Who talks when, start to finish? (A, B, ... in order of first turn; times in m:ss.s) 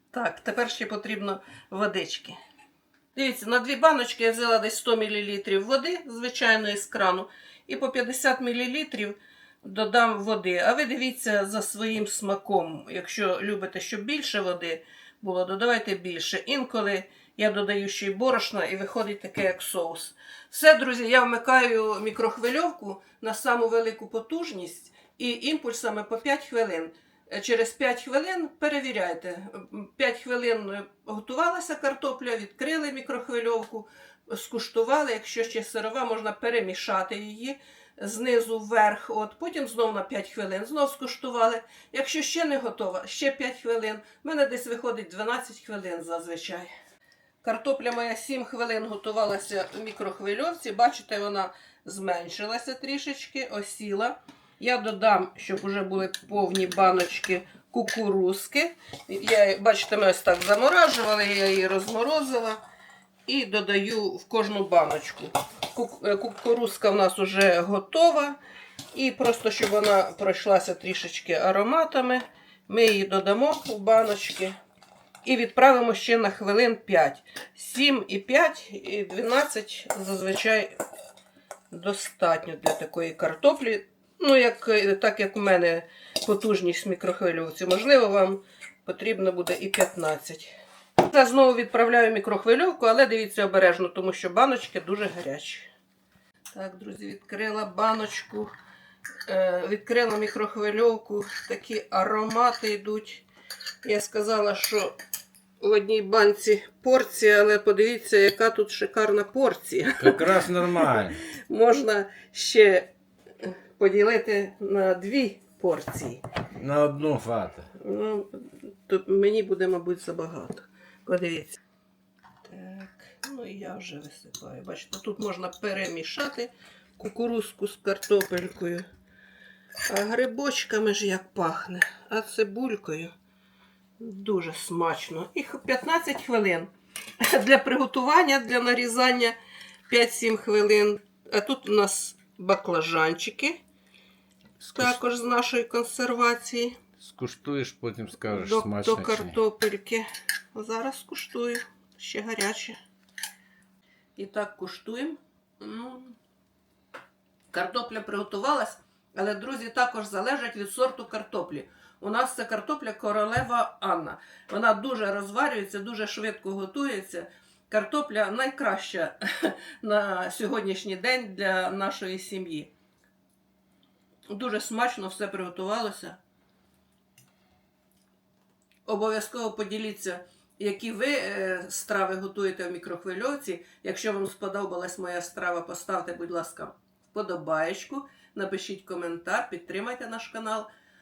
0:00.1-0:02.4 A
0:03.1-0:46.7 A
0:47.4-1:02.6 A
1:03.2-1:08.4 A
1:08.9-1:14.6 A
1:15.2-1:20.8 A
1:21.7-1:35.7 A
1:36.5-1:38.5 A
1:39.3-1:43.2 A
1:43.8-1:45.0 A
1:45.6-1:52.9 A
1:50.0-1:51.2 B
1:53.4-1:56.2 A
1:56.6-1:57.7 B
1:57.8-2:01.6 A
2:02.4-2:08.8 A
2:09.9-2:13.1 A
2:14.0-2:16.7 A
2:17.2-2:19.4 A
2:19.9-2:23.6 A
2:24.6-2:25.0 B
2:24.8-2:26.8 A
2:27.0-2:29.4 B
2:28.3-2:32.8 A
2:34.2-2:36.2 A
2:37.5-2:52.7 A
2:54.3-2:56.2 A
2:58.8-3:10.7 A